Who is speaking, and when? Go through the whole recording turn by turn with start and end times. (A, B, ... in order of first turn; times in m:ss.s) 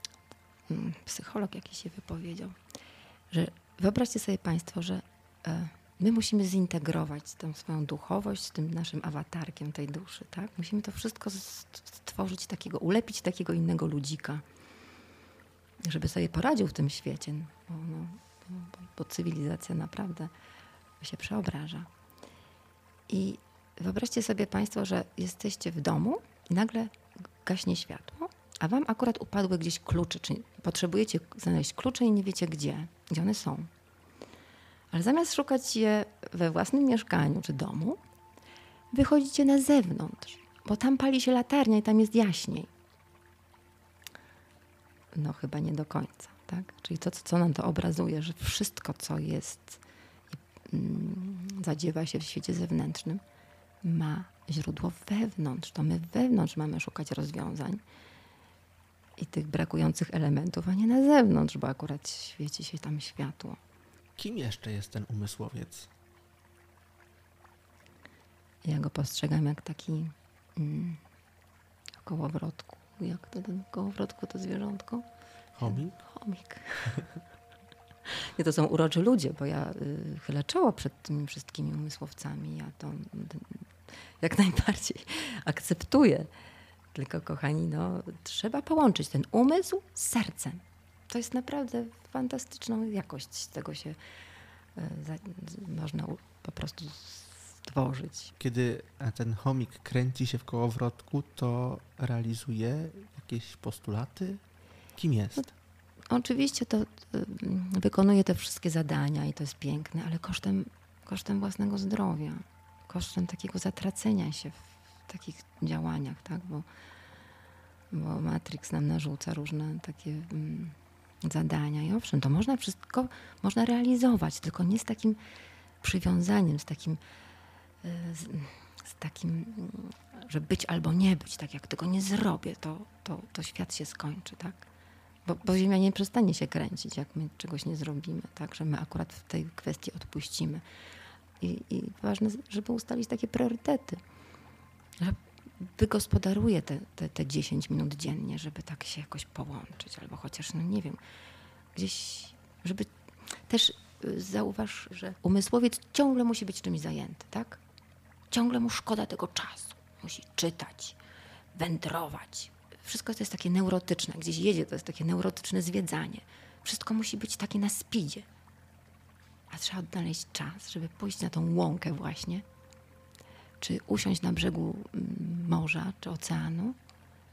0:00.7-0:02.6 A
0:03.3-0:14.4 A
0:15.8-0:20.3 A
0:21.0-0:21.9 A
0:23.1-0:33.7 A
0:34.9-0:38.0 A
0:38.9-0:42.7 A
0:45.1-0:49.8 A
0:50.3-0:53.2 A
0:53.8-0:57.8 A
0:59.2-1:03.6 A
1:04.2-1:05.9 B
1:08.6-1:11.0 A
1:12.0-1:15.0 A
1:15.5-1:16.0 B
1:15.6-1:17.0 A
1:18.1-1:23.6 A
1:24.2-1:26.3 A
1:26.9-1:34.0 A
1:34.7-1:38.3 A
1:38.4-1:44.4 B
1:45.0-1:45.5 B
1:46.1-1:56.6 A
1:57.9-2:05.2 A
2:05.8-2:07.0 A
2:07.8-2:14.6 A
2:15.2-2:20.6 A
2:21.4-2:24.0 A
2:25.0-2:31.0 A
2:31.7-2:32.9 A
2:33.4-2:37.6 A
2:38.3-2:41.0 A
2:41.5-2:48.3 A
2:49.5-2:52.4 A
2:53.6-2:56.8 A